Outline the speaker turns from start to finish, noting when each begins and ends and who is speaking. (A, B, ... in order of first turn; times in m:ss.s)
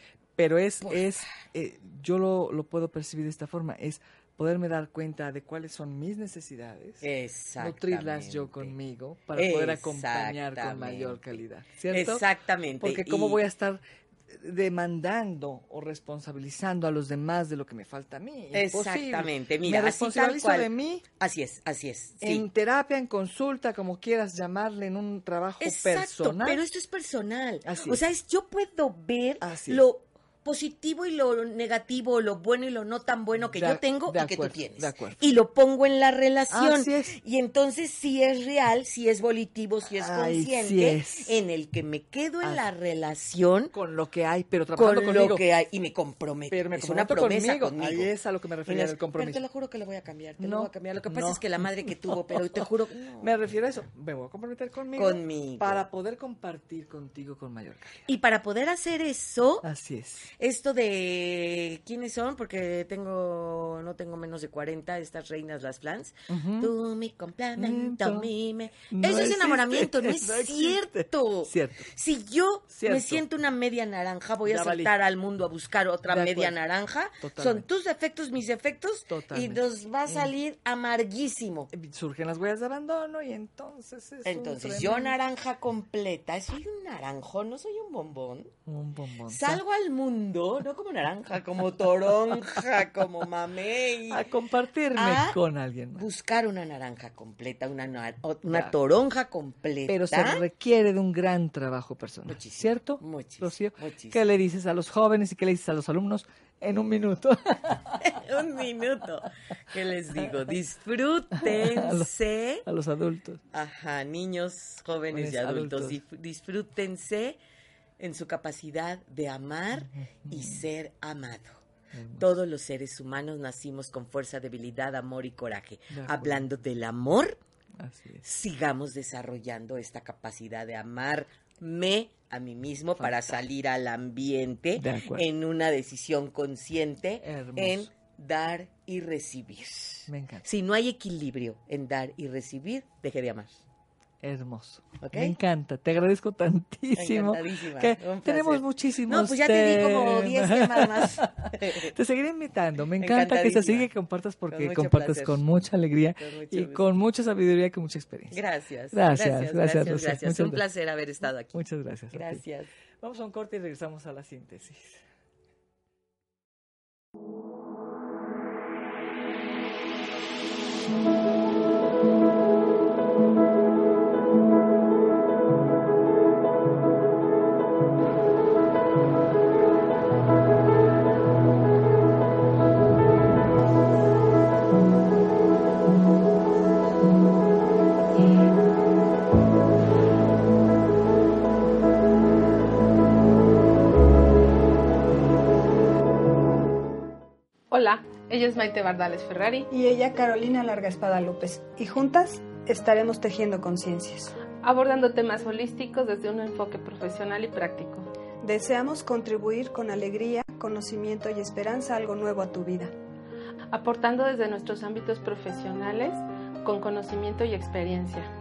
0:00.4-0:07.1 A
0:00.8-0:01.2 B
0:07.0-0:08.8 B
0:07.6-0:12.2 A
0:09.3-0:13.4 B
0:12.8-0:21.0 A
0:18.5-0:22.5 B
0:22.2-0:26.6 A
0:25.6-0:43.7 B
0:27.7-0:28.0 A
0:29.4-0:29.8 A
0:33.5-0:35.2 A
0:36.5-0:37.2 A
0:40.0-0:41.4 A
0:43.7-0:45.4 A
0:44.8-0:48.1 B
0:46.5-0:49.4 A
0:48.7-0:53.4 B
0:50.4-0:52.7 A
0:53.2-0:58.0 A
0:55.0-0:55.8 B
0:58.1-0:59.7 B
0:59.6-1:00.3 A
1:00.4-1:21.7 B
1:06.3-1:06.7 A
1:07.6-1:08.3 A
1:08.9-1:11.9 A
1:12.7-1:13.2 A
1:14.4-1:14.9 A
1:16.1-1:16.6 A
1:17.2-1:17.7 A
1:19.1-1:20.3 A
1:21.7-1:25.2 A
1:24.2-1:28.5 B
1:28.7-1:29.6 A
1:29.3-1:34.3 B
1:34.1-1:36.1 A
1:35.0-1:35.4 B
1:36.0-1:40.4 B
1:38.5-1:38.7 A
1:39.9-1:48.2 A
1:42.3-1:44.2 B
1:48.0-1:52.7 B
1:50.2-1:50.5 A
1:51.4-1:52.1 A
1:52.7-1:53.4 A
1:53.5-1:57.4 B
1:55.1-1:56.0 A
1:58.0-2:01.6 B
1:59.9-2:00.6 A
2:01.9-2:02.4 A
2:02.2-2:07.4 B
2:05.9-2:06.4 A
2:07.8-2:08.2 A
2:08.2-2:23.6 B
2:13.0-2:13.4 A
2:14.8-2:15.3 A
2:17.2-2:17.9 A
2:20.1-2:20.5 A
2:24.2-2:38.4 A
2:25.0-2:25.4 B
2:26.9-2:31.9 B
2:33.0-2:33.9 B
2:34.5-2:35.4 B
2:36.2-2:36.9 B
2:38.3-2:42.7 B
2:38.9-2:40.6 A
2:41.5-2:42.4 A
2:43.0-2:45.0 A
3:17.7-3:19.7 C
3:19.7-3:24.4 D
3:24.6-3:28.1 C
3:28.4-3:32.9 D
3:33.7-3:38.3 C